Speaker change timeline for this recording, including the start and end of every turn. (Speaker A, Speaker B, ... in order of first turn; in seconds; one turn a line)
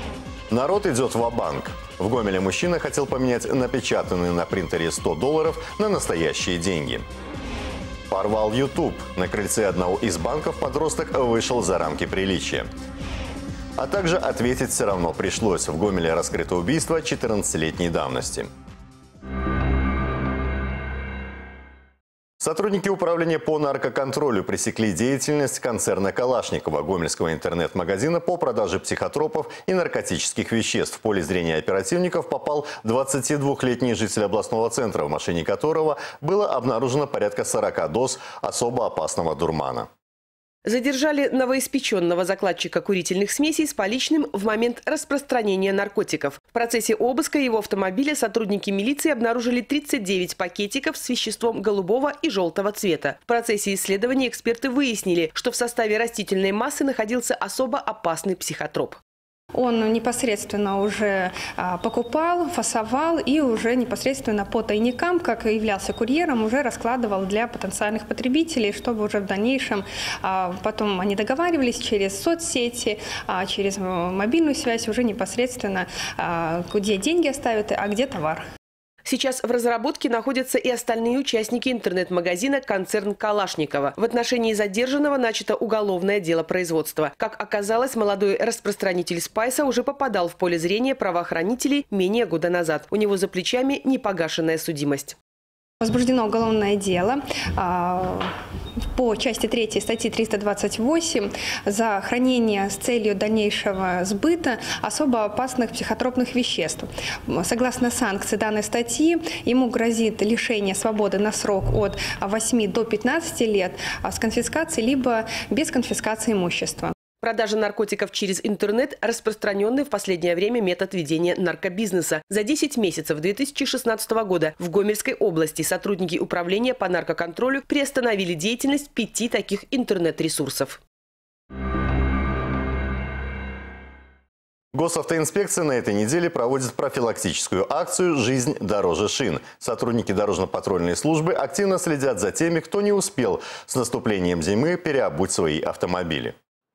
Speaker A: 0.5-7.0
Speaker A: 8.1-12.7
Speaker A: 13.8-18.5
Speaker A: 22.4-39.9
Speaker B: 40.6-59.0
Speaker C: 59.5-78.4
Speaker B: 79.0-95.2
Speaker C: 95.8-98.3
Speaker C: 99.0-116.9
Speaker B: 117.2-130.8
Speaker A: 134.7-146.3